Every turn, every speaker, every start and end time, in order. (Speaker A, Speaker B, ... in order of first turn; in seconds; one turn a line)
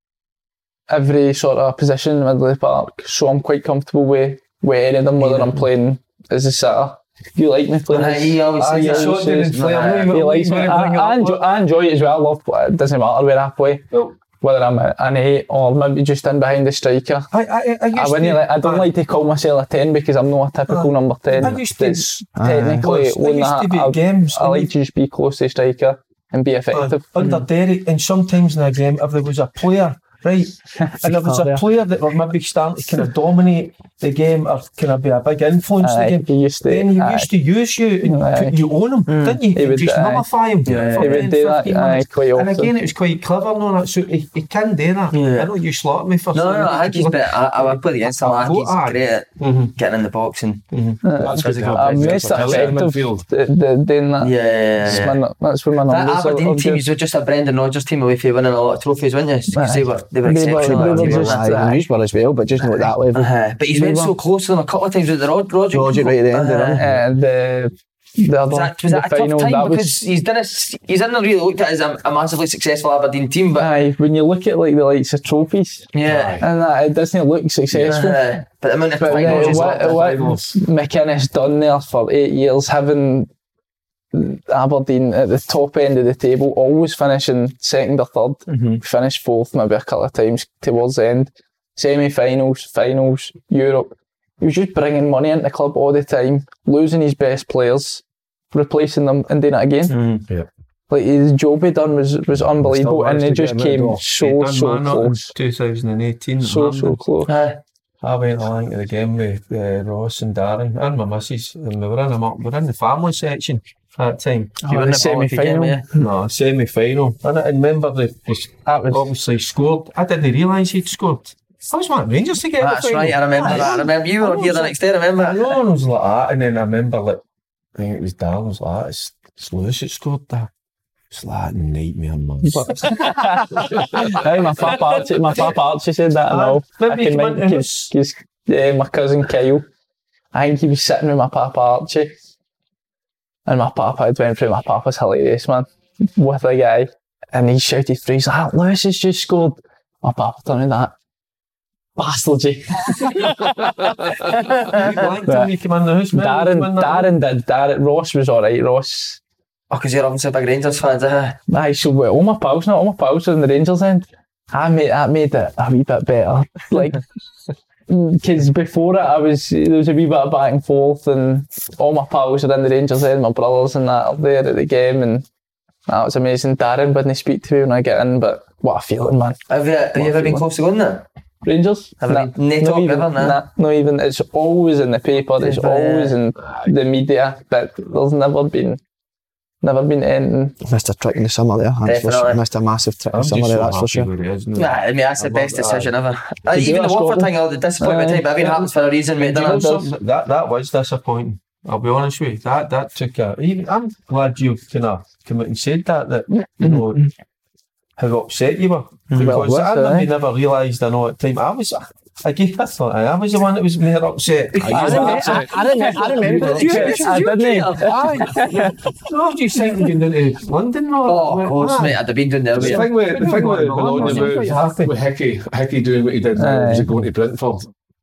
Speaker A: 0.9-13.9
Speaker B: 5.3-5.5
Speaker B: 7.9-10.2
Speaker C: 8.6-11.4
Speaker A: 14.4-17.3
Speaker C: 17.3-18.9
Speaker A: 17.9-27.4
Speaker C: 20.7-24.7
Speaker D: 22.4-22.9
Speaker C: 26.7-49.7
Speaker A: 30.8-31.6
Speaker A: 35.8-37.3
Speaker A: 38.0-38.6
Speaker B: 39.1-39.4
Speaker A: 39.5-40.3
Speaker B: 40.6-41.3
Speaker A: 41.0-42.7
Speaker B: 45.1-45.5
Speaker B: 46.3-50.6
Speaker C: 50.7-51.0
Speaker A: 51.0-56.9
Speaker E: 51.2-53.2
Speaker B: 51.3-52.8
Speaker B: 54.2-55.2
Speaker B: 55.9-61.6
Speaker A: 59.5-61.8
Speaker D: 60.5-63.3
Speaker B: 63.1-66.8
Speaker A: 63.7-64.1
Speaker D: 65.7-66.8
Speaker A: 66.8-70.0
Speaker B: 68.5-73.7
Speaker A: 73.6-75.9
Speaker B: 75.9-76.4
Speaker E: 76.0-76.5
Speaker A: 76.4-78.2
Speaker B: 77.7-80.2
Speaker A: 79.0-83.3
Speaker E: 79.2-80.5
Speaker A: 84.1-99.9
Speaker B: 99.9-100.2
Speaker A: 100.9-105.3
Speaker E: 102.5-104.0
Speaker C: 104.2-107.0
Speaker A: 106.4-107.3
Speaker B: 107.2-107.6
Speaker C: 108.0-114.6
Speaker A: 114.6-115.8
Speaker B: 114.7-115.9
Speaker C: 115.9-127.2
Speaker A: 118.6-119.1
Speaker B: 122.6-125.6
Speaker C: 127.8-130.5
Speaker C: 131.1-134.8
Speaker A: 132.4-139.7
Speaker C: 136.3-137.9
Speaker A: 140.3-142.1
Speaker A: 143.4-150.9
Speaker A: 151.9-155.5
Speaker C: 154.6-157.1
Speaker A: 156.1-159.2
Speaker B: 159.7-161.4
Speaker A: 161.5-167.0
Speaker A: 167.9-175.2
Speaker A: 175.9-179.4
Speaker B: 179.5-181.0
Speaker A: 179.9-180.4
Speaker A: 181.4-188.8
Speaker B: 182.0-183.4
Speaker B: 185.4-186.2
Speaker A: 189.6-190.6
Speaker D: 190.6-194.1
Speaker B: 191.8-192.4
Speaker C: 193.1-195.9
Speaker B: 194.5-199.7
Speaker A: 196.5-198.3
Speaker C: 198.4-207.1
Speaker A: 199.3-199.9
Speaker A: 206.6-207.1
Speaker C: 208.0-215.4
Speaker B: 209.1-209.4
Speaker A: 209.2-210.1
Speaker E: 214.6-215.6
Speaker D: 214.7-217.0
Speaker A: 214.7-218.8
Speaker C: 216.0-222.0
Speaker B: 216.3-218.5
Speaker B: 221.1-223.1
Speaker E: 222.5-227.7
Speaker C: 222.6-224.9
Speaker B: 223.9-224.3
Speaker A: 226.3-226.9